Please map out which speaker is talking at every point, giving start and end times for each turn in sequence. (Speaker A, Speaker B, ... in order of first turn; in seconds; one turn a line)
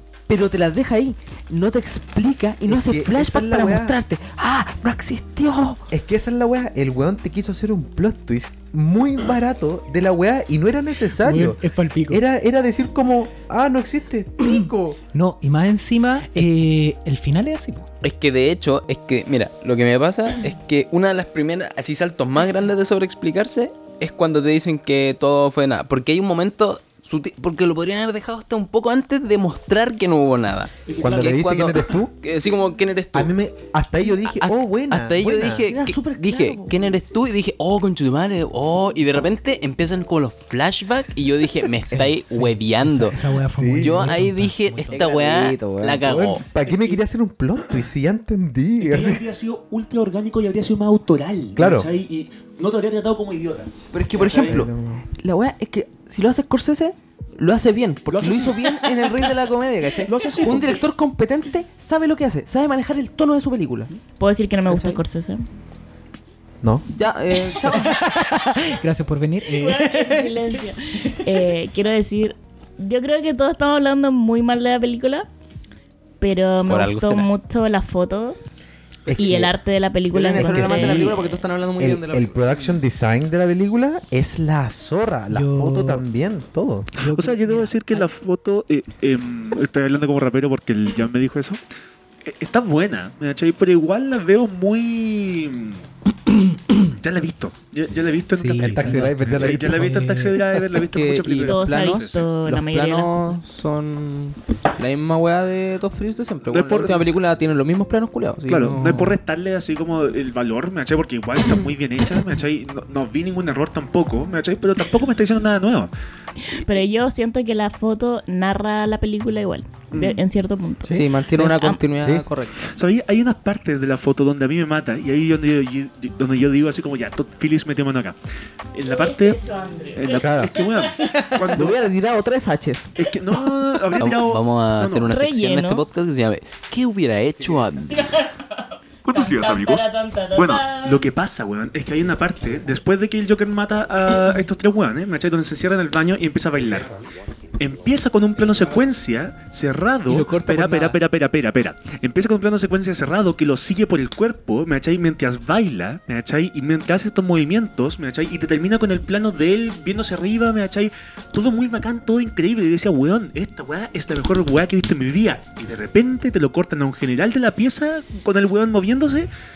Speaker A: 0.3-5.8
Speaker B: 2.7-4.0
Speaker B: 5.9-15.0
Speaker C: 11.2-12.2
Speaker C: 15.1-17.9
Speaker D: 18.0-33.3
Speaker E: 30.9-31.3
Speaker B: 31.0-32.1
Speaker B: 33.1-35.6
Speaker D: 34.0-43.2
Speaker A: 35.2-36.9
Speaker C: 41.9-45.1
Speaker B: 43.4-44.2
Speaker D: 43.8-46.4
Speaker A: 44.9-46.1
Speaker B: 46.0-49.2
Speaker E: 46.6-47.0
Speaker E: 48.8-54.6
Speaker B: 51.6-51.9
Speaker A: 53.9-64.0
Speaker B: 54.3-55.0
Speaker E: 58.1-59.0
Speaker E: 60.1-60.8
Speaker F: 64.2-65.4
Speaker A: 64.7-65.0
Speaker A: 66.9-68.0
Speaker C: 67.7-70.4
Speaker F: 69.5-75.3
Speaker F: 76.2-78.4
Speaker D: 76.7-77.3
Speaker B: 79.1-79.5
Speaker F: 79.2-81.3
Speaker A: 80.1-82.4
Speaker B: 80.4-81.2
Speaker B: 81.8-86.9
Speaker E: 82.5-82.8
Speaker C: 85.3-86.0
Speaker C: 87.0-88.1
Speaker E: 87.1-91.6
Speaker E: 92.2-102.3
Speaker C: 98.3-100.5
Speaker B: 98.6-99.9
Speaker A: 100.8-109.2
Speaker F: 101.5-103.4
Speaker E: 106.5-107.0
Speaker E: 108.5-115.9
Speaker F: 116.4-121.8
Speaker E: 119.9-120.2
Speaker A: 120.9-122.7
Speaker B: 122.0-122.3
Speaker E: 122.7-128.2
Speaker E: 128.7-129.4
Speaker F: 128.9-131.3
Speaker E: 129.9-131.8
Speaker B: 130.1-130.5
Speaker A: 131.2-133.1
Speaker E: 133.0-135.1
Speaker D: 133.9-138.1
Speaker F: 135.1-135.8
Speaker F: 137.9-141.1
Speaker E: 139.1-146.9
Speaker E: 147.6-169.3
Speaker A: 150.1-151.0